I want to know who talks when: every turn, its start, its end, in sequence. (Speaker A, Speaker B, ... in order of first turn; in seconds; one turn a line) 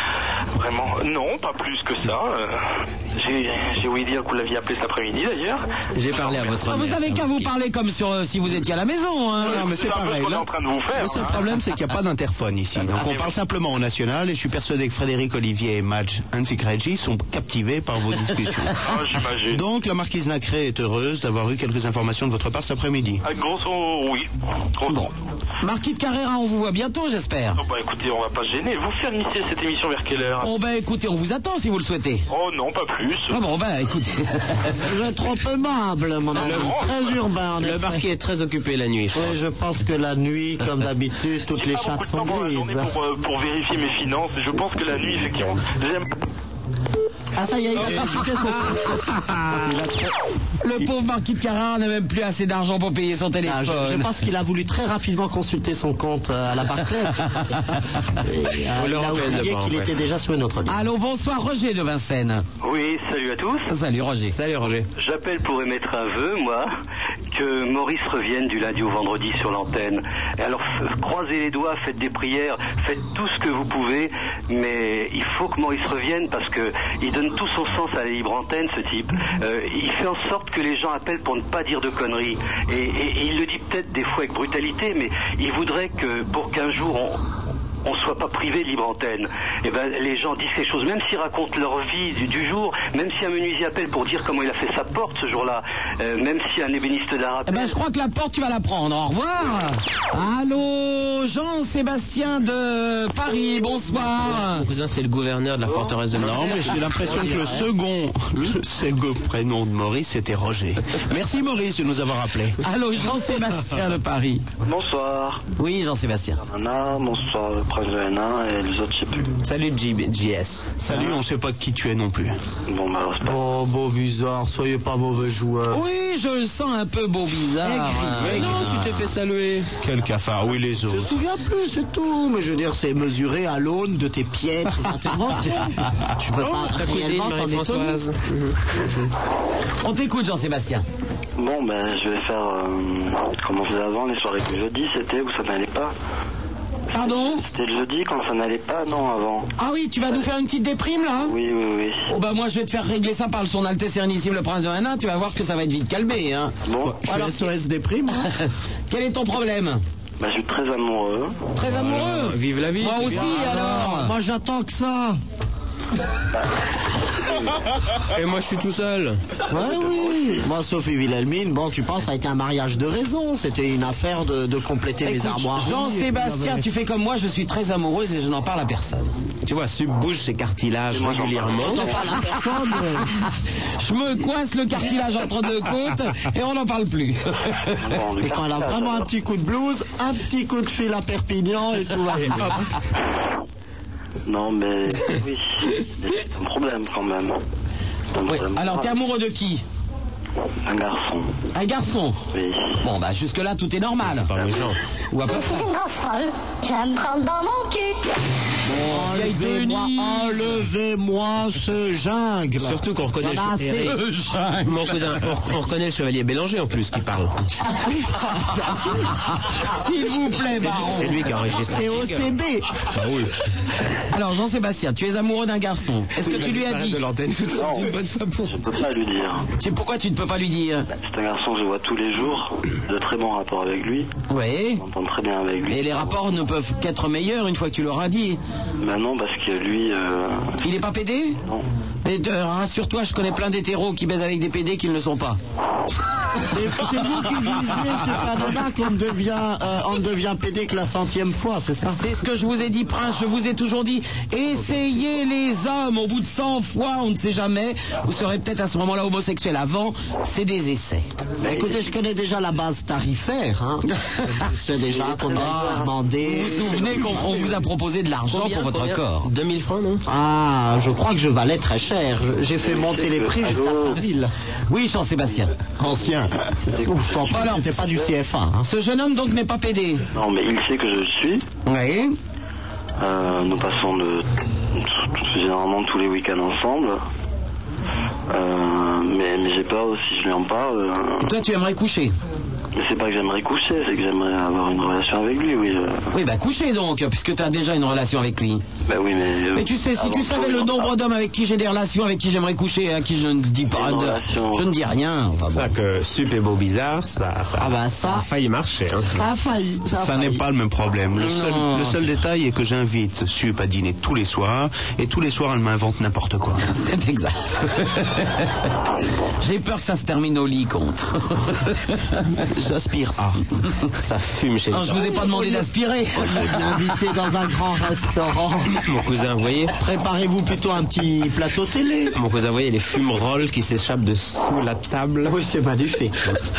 Speaker A: 0.5-6.5
Speaker B: 5.9-7.5
Speaker C: 6.7-9.6
Speaker A: 9.4-11.4
Speaker D: 9.4-23.2
Speaker A: 12.9-13.3
Speaker A: 18.8-19.6
Speaker A: 23.2-25.1
Speaker C: 24.9-27.6
Speaker A: 27.6-30.5
Speaker C: 30.4-32.2
Speaker A: 32.3-33.4
Speaker C: 33.3-34.9
Speaker E: 34.8-38.0
Speaker A: 36.4-37.2
Speaker B: 37.6-39.4
Speaker E: 39.1-42.9
Speaker A: 41.5-46.1
Speaker E: 47.3-50.0
Speaker C: 50.6-54.1
Speaker E: 53.4-60.9
Speaker B: 58.7-59.9
Speaker C: 60.7-62.4
Speaker F: 62.6-63.7
Speaker C: 63.7-64.3
Speaker B: 64.3-64.9
Speaker F: 65.0-66.7
Speaker F: 67.3-87.2
Speaker F: 87.8-97.8
Speaker C: 97.5-104.7
Speaker B: 104.2-107.0
Speaker D: 106.1-112.6
Speaker C: 106.5-107.3
Speaker E: 107.1-107.6
Speaker C: 112.6-114.4
Speaker G: 114.6-115.4
Speaker C: 115.6-116.4
Speaker G: 116.4-119.3
Speaker B: 119.4-120.7
Speaker D: 120.8-122.3
Speaker G: 122.7-123.4
Speaker E: 123.2-125.8
Speaker C: 125.7-129.0
Speaker E: 127.6-128.7
Speaker B: 128.2-129.7
Speaker D: 129.8-131.1
Speaker E: 130.8-138.0
Speaker B: 136.4-138.9
Speaker C: 139.8-140.8
Speaker G: 141.4-145.9
Speaker C: 146.9-147.4
Speaker G: 146.9-149.5
Speaker C: 149.6-151.3
Speaker G: 151.2-152.1
Speaker C: 152.1-157.5
Speaker G: 156.6-157.0
Speaker E: 157.0-158.3
Speaker C: 158.9-159.8
Speaker G: 160.2-161.4
Speaker C: 161.6-164.1
Speaker B: 161.6-163.7
Speaker E: 163.2-165.2
Speaker B: 168.1-169.2
Speaker E: 169.5-176.6
Speaker G: 169.6-170.4
Speaker C: 175.0-179.1
Speaker B: 179.4-181.9
Speaker G: 180.9-182.0
Speaker E: 181.6-183.1
Speaker C: 183.3-187.8
Speaker G: 187.8-189.1
Speaker E: 188.2-192.6
Speaker G: 194.2-197.4
Speaker G: 198.1-198.9
Speaker C: 198.2-199.6
Speaker G: 200.7-201.3
Speaker C: 201.5-202.2
Speaker G: 202.3-202.8
Speaker C: 202.8-204.3
Speaker B: 204.1-204.8
Speaker C: 205.1-205.6
Speaker H: 205.2-208.1
Speaker E: 208.7-213.9
Speaker C: 208.7-210.6
Speaker B: 212.6-214.0
Speaker C: 213.8-215.1
Speaker B: 214.6-217.3
Speaker E: 217.9-219.2
Speaker C: 219.5-221.2
Speaker B: 220.6-222.3
Speaker E: 221.5-222.7
Speaker B: 222.8-223.3
Speaker C: 224.1-227.0
Speaker B: 226.2-228.7
Speaker G: 227.4-229.5
Speaker C: 229.6-230.9
Speaker G: 230.9-234.1
Speaker C: 234.3-234.8
Speaker G: 234.8-236.2
Speaker C: 235.7-238.4
Speaker G: 238.8-240.6
Speaker C: 240.6-241.4
Speaker C: 242.0-245.4
Speaker E: 246.5-252.0
Speaker C: 251.9-261.1
Speaker G: 261.4-261.8
Speaker E: 261.4-267.6
Speaker G: 265.0-265.7
Speaker C: 265.3-269.3
Speaker B: 268.3-270.0
Speaker E: 270.1-274.3
Speaker G: 272.6-274.0
Speaker C: 274.7-275.6
Speaker D: 275.8-276.3
Speaker G: 276.7-278.1
Speaker E: 276.8-278.7
Speaker C: 277.2-277.7
Speaker C: 278.6-280.0
Speaker G: 280.1-281.4
Speaker C: 281.6-282.1
Speaker G: 283.0-287.0
Speaker G: 288.3-291.3
Speaker C: 291.2-292.1
Speaker G: 292.7-296.1
Speaker C: 296.1-298.6
Speaker G: 298.9-300.9
Speaker C: 299.5-305.7
Speaker G: 303.7-304.7
Speaker B: 305.5-309.2
Speaker E: 307.6-308.3
Speaker E: 309.1-310.4
Speaker D: 310.0-316.6
Speaker C: 311.2-312.1
Speaker C: 316.6-318.7
Speaker C: 319.4-322.2
Speaker D: 322.5-323.4
Speaker B: 324.0-325.3
Speaker C: 324.7-326.9
Speaker E: 326.1-328.8
Speaker B: 328.8-329.7
Speaker E: 329.8-332.1
Speaker B: 332.1-335.3
Speaker E: 335.2-336.2